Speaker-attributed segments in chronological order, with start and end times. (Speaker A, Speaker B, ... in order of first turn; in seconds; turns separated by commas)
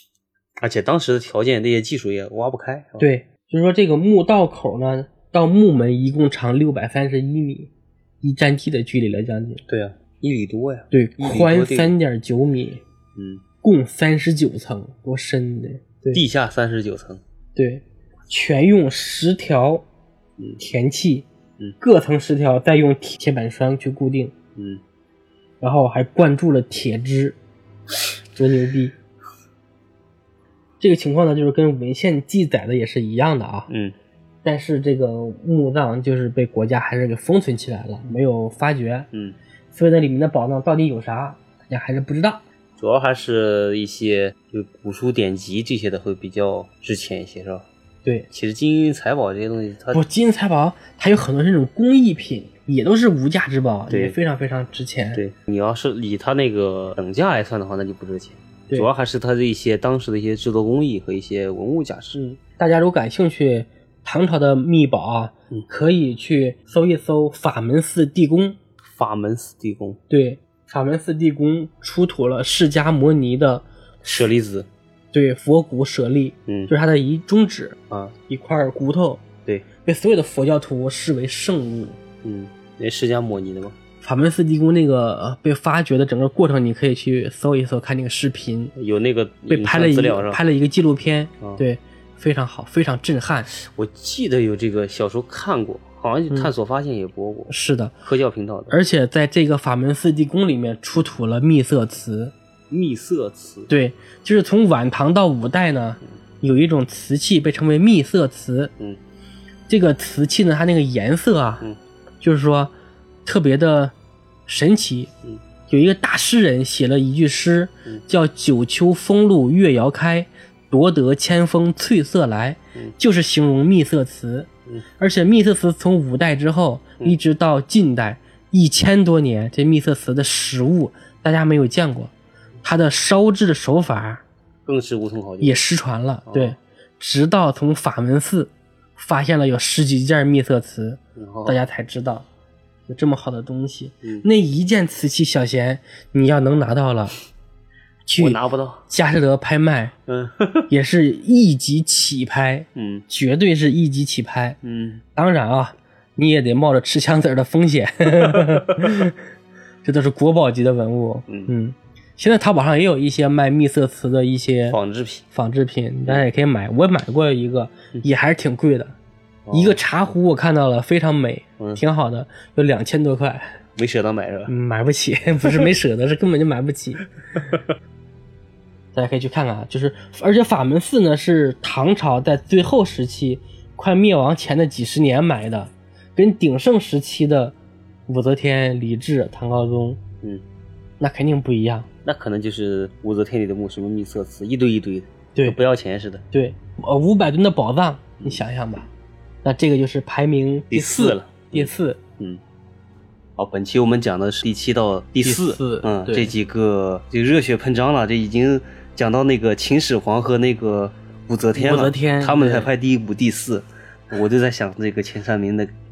Speaker A: 0.6-3.1, Speaker B: 3.0-7.7, Speaker B: 8.2-9.6, Speaker A: 9.7-11.9, Speaker B: 10.9-12.8, Speaker A: 13.1-13.4, Speaker B: 13.6-16.2, Speaker A: 16.1-17.2, Speaker B: 17.6-19.8, Speaker B: 20.6-21.2, Speaker B: 21.8-24.3, Speaker A: 24.6-24.8, Speaker B: 25.6-27.4, Speaker B: 28.3-28.9, Speaker B: 30.8-33.7, Speaker A: 33.7-33.9, Speaker B: 34.4-39.1, Speaker A: 39.1-39.4, Speaker B: 39.7-42.4, Speaker A: 42.8-47.6, Speaker A: 48.3-50.0, Speaker B: 49.9-55.2, Speaker A: 53.9-54.1, Speaker A: 55.1-62.2, Speaker B: 62.2-68.6, Speaker A: 68.9-70.0, Speaker B: 70.1-73.6, Speaker A: 74.0-74.7, Speaker B: 75.1-79.2, Speaker B: 79.8-82.0, Speaker A: 82.2-83.8, Speaker B: 84.0-88.7, Speaker A: 88.8-90.4, Speaker B: 89.5-93.5, Speaker A: 93.5-97.5, Speaker B: 97.5-98.0, Speaker A: 98.0-98.8, Speaker B: 98.7-102.3, Speaker A: 102.7-103.7, Speaker B: 103.7-108.7, Speaker B: 109.7-111.7, Speaker B: 112.2-112.7, Speaker B: 113.2-113.9, Speaker B: 114.5-115.1, Speaker B: 115.7-132.1, Speaker B: 132.6-134.2, Speaker A: 134.7-135.6, Speaker B: 135.4-142.3, Speaker A: 136.3-136.6, Speaker A: 141.2-141.6, Speaker B: 142.9-147.2, Speaker B: 148.1-149.9, Speaker A: 148.2-148.8, Speaker A: 150.1-150.7, Speaker B: 150.7-154.6, Speaker A: 152.7-153.1, Speaker A: 154.6-155.0, Speaker B: 155.1-159.2, Speaker A: 158.2-158.9, Speaker B: 159.8-164.8, Speaker A: 164.7-165.2, Speaker B: 165.3-168.9, Speaker A: 169.4-169.8, Speaker B: 169.5-173.6, Speaker A: 173.8-174.5, Speaker B: 174.5-177.1, Speaker B: 178.9-187.6, Speaker B: 188.1-190.0, Speaker B: 191.0-191.9, Speaker A: 192.0-196.2, Speaker B: 196.3-198.9, Speaker B: 199.4-202.0, Speaker A: 200.7-202.4, Speaker A: 203.4-215.7, Speaker B: 205.2-206.3, Speaker B: 211.5-212.7